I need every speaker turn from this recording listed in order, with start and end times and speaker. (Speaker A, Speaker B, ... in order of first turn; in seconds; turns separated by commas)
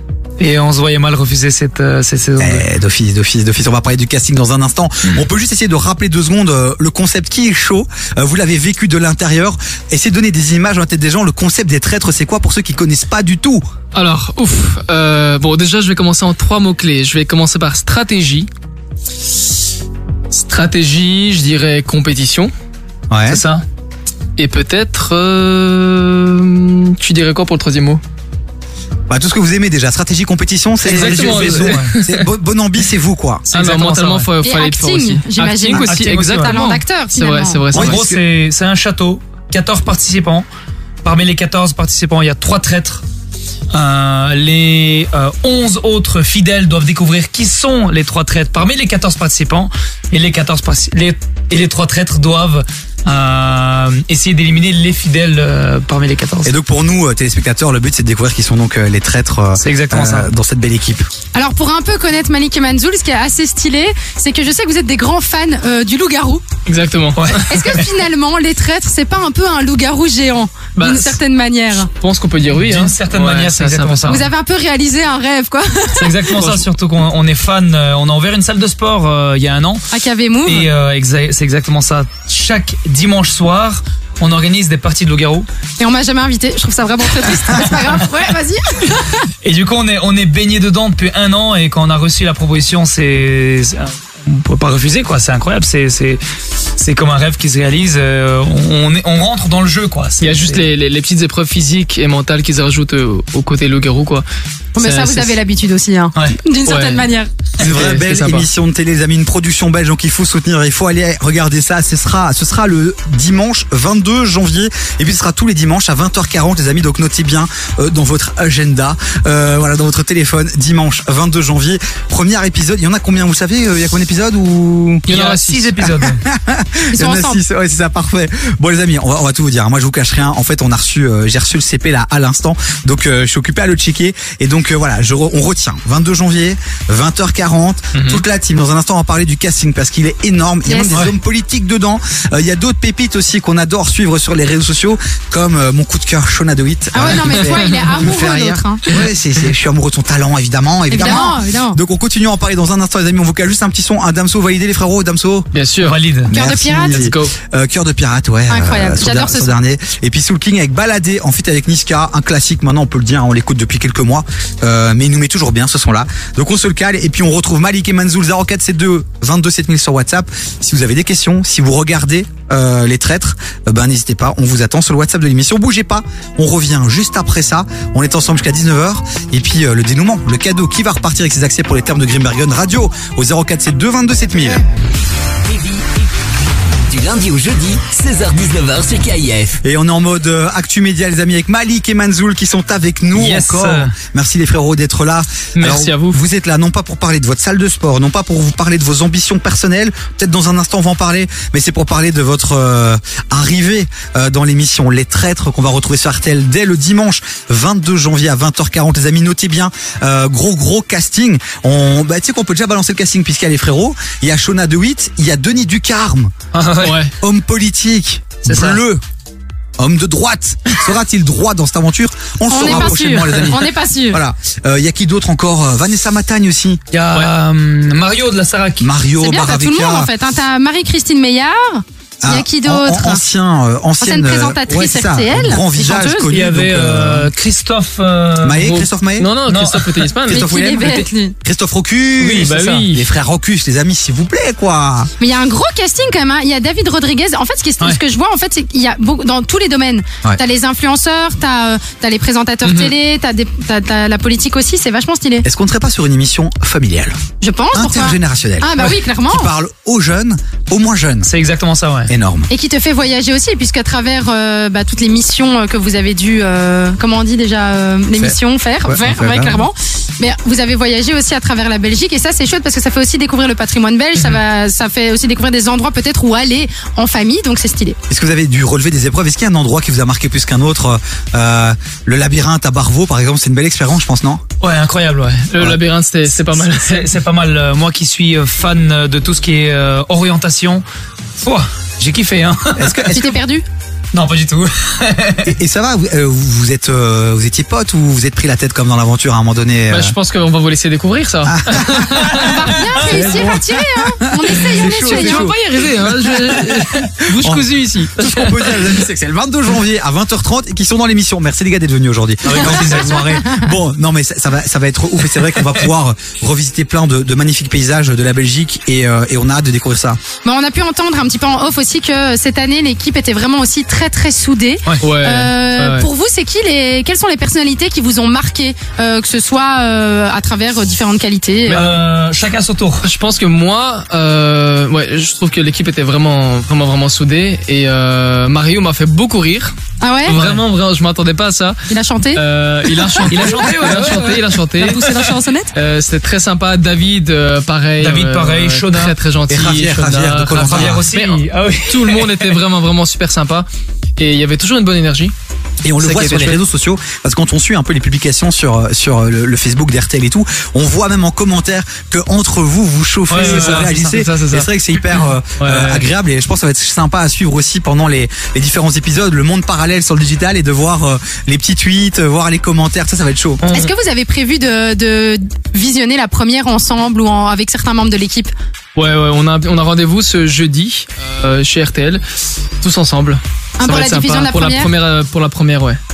Speaker A: 0.4-2.6, Speaker B: 2.4-13.6, Speaker C: 13.9-18.5, Speaker C: 20.3-22.5, Speaker B: 23.1-23.4, Speaker A: 23.3-23.6, Speaker C: 24.4-28.0, Speaker B: 29.1-33.5, Speaker C: 30.8-32.3, Speaker A: 30.9-31.9, Speaker A: 33.5-34.3, Speaker C: 33.5-38.0, Speaker D: 34.4-37.6, Speaker A: 35.7-36.6, Speaker A: 37.7-40.5, Speaker B: 37.7-38.2, Speaker A: 41.0-43.0, Speaker A: 43.7-56.5, Speaker B: 56.4-61.1, Speaker A: 59.6-60.3, Speaker D: 61.3-66.4, Speaker C: 66.7-67.4, Speaker A: 67.2-67.9, Speaker D: 67.5-71.9, Speaker C: 70.8-71.2, Speaker C: 71.8-74.3, Speaker A: 72.5-74.2, Speaker D: 74.1-76.2, Speaker A: 75.9-79.9, Speaker C: 76.2-76.7, Speaker D: 79.9-80.7, Speaker A: 80.5-85.5, Speaker D: 85.8-89.3, Speaker A: 89.4-96.2, Speaker A: 96.8-100.7, Speaker C: 100.2-104.3, Speaker D: 104.8-107.3, Speaker C: 104.8-105.4, Speaker C: 106.7-107.1, Speaker B: 107.6-125.1, Speaker C: 107.6-108.5, Speaker C: 125.1-125.7, Speaker A: 125.1-126.2, Speaker B: 125.8-155.5, Speaker D: 126.9-127.4, Speaker C: 137.9-138.2, Speaker D: 140.7-140.9, Speaker D: 146.9-149.0, Speaker D: 150.9-151.8, Speaker C: 155.5-156.0, Speaker A: 155.8-156.3, Speaker B: 156.3-184.6, Speaker D: 156.3-157.1, Speaker C: 156.9-157.3, Speaker D: 158.5-159.5, Speaker E: 186.9-189.6, Speaker B: 189.6-216.3, Speaker A: 193.1-193.9, Speaker C: 195.6-196.2, Speaker A: 216.5-217.0, Speaker C: 216.8-217.1, Speaker B: 217.2-219.0, Speaker A: 218.4-218.8, Speaker B: 219.8-226.8, Speaker D: 222.5-224.2, Speaker A: 226.9-228.9, Speaker B: 228.8-230.1, Speaker D: 229.2-233.2, Speaker B: 232.2-237.3, Speaker D: 234.0-236.3, Speaker A: 236.3-238.7, Speaker B: 238.4-239.3, Speaker C: 238.6-241.0, Speaker A: 239.5-240.1, Speaker D: 240.2-241.4, Speaker B: 240.3-245.1, Speaker A: 242.2-242.8, Speaker C: 242.3-243.1, Speaker D: 245.2-255.5, Speaker A: 252.7-252.9, Speaker B: 255.4-257.2, Speaker D: 257.4-259.5, Speaker B: 257.7-261.3, Speaker A: 261.2-262.1, Speaker B: 262.1-262.5, Speaker D: 262.5-278.0, Speaker B: 268.2-269.7, Speaker B: 278.1-284.4, Speaker A: 284.6-285.6, Speaker C: 285.5-287.1, Speaker A: 286.6-290.8, Speaker A: 291.4-293.1, Speaker B: 292.8-293.4, Speaker D: 293.1-293.6, Speaker A: 294.1-295.5, Speaker B: 295.4-300.1, Speaker C: 299.9-302.4, Speaker B: 301.5-302.1, Speaker A: 302.1-303.0, Speaker D: 302.3-305.5, Speaker B: 303.0-307.6, Speaker C: 304.8-309.0, Speaker B: 308.1-320.2, Speaker A: 312.4-313.3, Speaker D: 312.6-313.6, Speaker D: 320.4-331.9, Speaker C: 325.0-326.1, Speaker C: 331.7-332.0, Speaker A: 331.7-333.1, Speaker C: 333.0-345.2, Speaker D: 340.0-340.4, Speaker A: 340.3-340.6, Speaker D: 341.9-342.4, Speaker D: 343.1-344.0, Speaker A: 343.3-344.5, Speaker D: 344.8-345.7, Speaker C: 345.7-355.3, Speaker A: 348.0-349.2, Speaker B: 349.5-351.1, Speaker A: 350.5-352.6, Speaker B: 355.8-373.6, Speaker C: 356.0-356.6, Speaker A: 363.3-364.2, Speaker C: 363.3-364.7, Speaker C: 365.5-366.1, Speaker A: 373.6-373.9, Speaker D: 373.7-378.5, Speaker C: 378.9-382.2, Speaker C: 382.8-386.0, Speaker D: 383.8-384.9